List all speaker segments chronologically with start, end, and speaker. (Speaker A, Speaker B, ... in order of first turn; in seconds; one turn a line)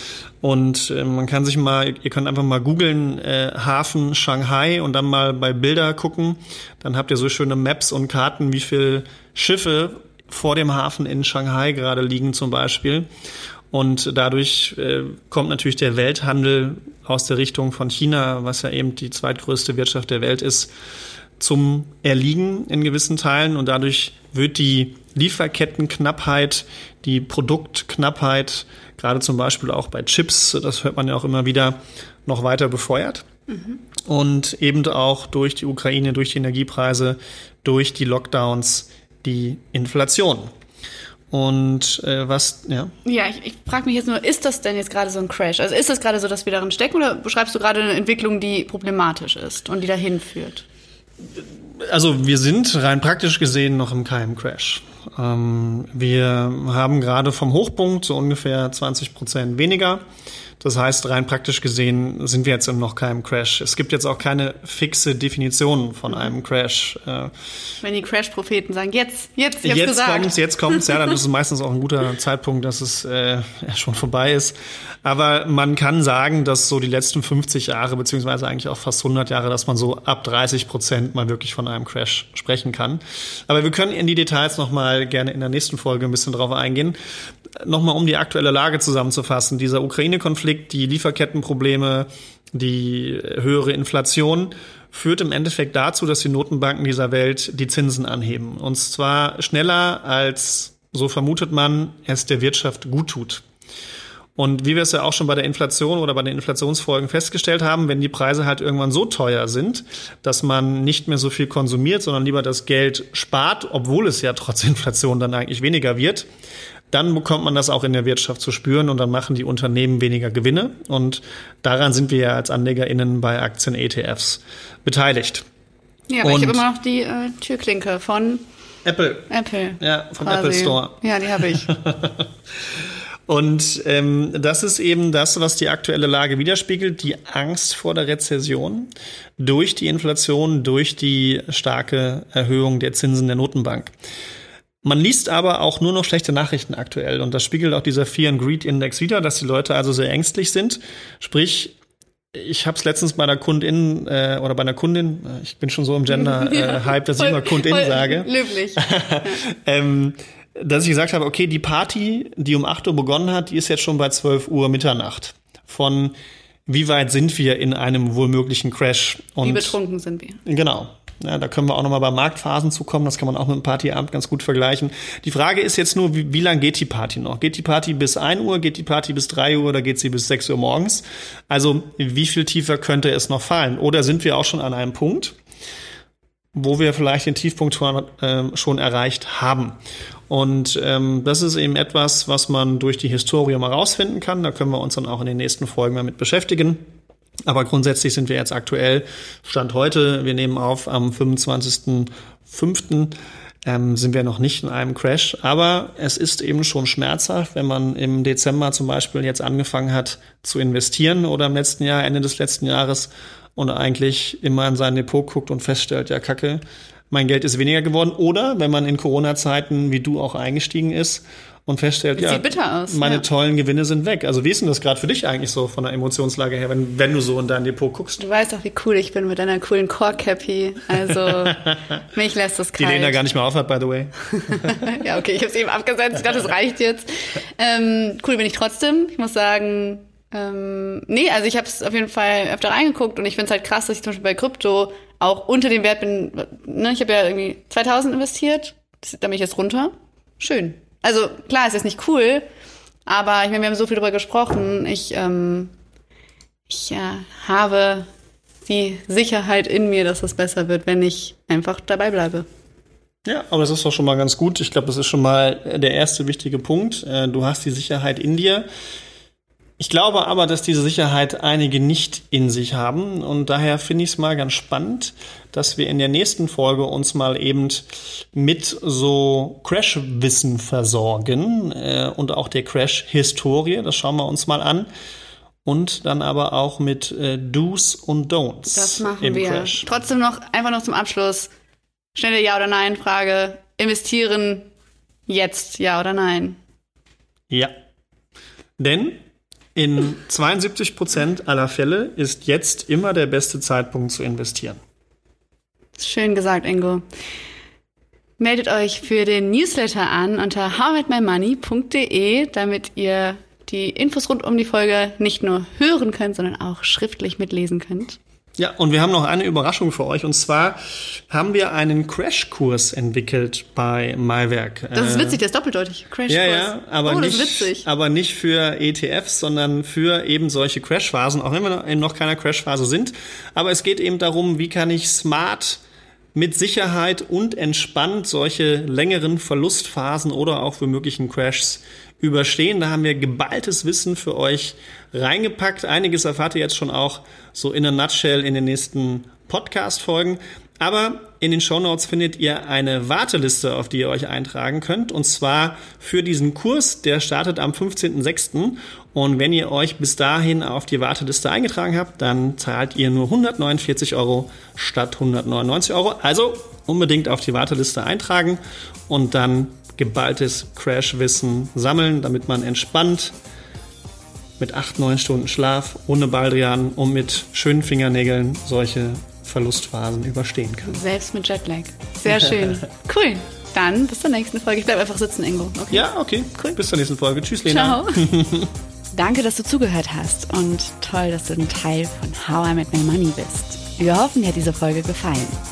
Speaker A: 0.4-13.1
Speaker A: 13.7-20.7
Speaker A: 21.4-33.2
Speaker A: 34.0-40.5
Speaker A: 41.3-42.9
Speaker B: 43.0-50.6
Speaker A: 51.3-60.0
Speaker A: 60.6-67.3
Speaker B: 67.8-70.8
Speaker A: 69.6-87.0
Speaker A: 87.6-103.4
Speaker A: 104.3-116.3
Speaker A: 116.9-125.5
Speaker B: 126.1-128.4
Speaker A: 126.2-126.6
Speaker A: 128.8-143.9
Speaker B: 129.3-131.7
Speaker A: 144.8-151.8
Speaker A: 152.3-166.1
Speaker B: 156.1-159.4
Speaker A: 166.7-169.7
Speaker B: 169.4-170.4
Speaker A: 170.4-185.4
Speaker A: 186.5-189.8
Speaker A: 190.3-196.8
Speaker A: 197.4-228.2
Speaker B: 222.2-223.2
Speaker B: 228.2-233.2
Speaker A: 232.8-234.9
Speaker B: 234.4-252.4
Speaker B: 253.1-255.7
Speaker B: 256.7-258.1
Speaker B: 258.6-262.5
Speaker A: 263.2-268.6
Speaker A: 269.8-284.9
Speaker A: 285.6-289.9
Speaker B: 288.7-291.5
Speaker B: 292.1-294.7
Speaker B: 295.3-296.6
Speaker A: 298.8-299.2
Speaker A: 299.7-304.8
Speaker B: 306.0-307.0
Speaker B: 308.4-318.2
Speaker A: 318.6-325.4
Speaker B: 324.9-327.9
Speaker A: 326.3-335.8
Speaker A: 336.3-373.3
Speaker A: 374.6-381.0
Speaker B: 380.9-386.8
Speaker A: 385.9-388.7
Speaker B: 387.6-388.3
Speaker B: 389.1-395.5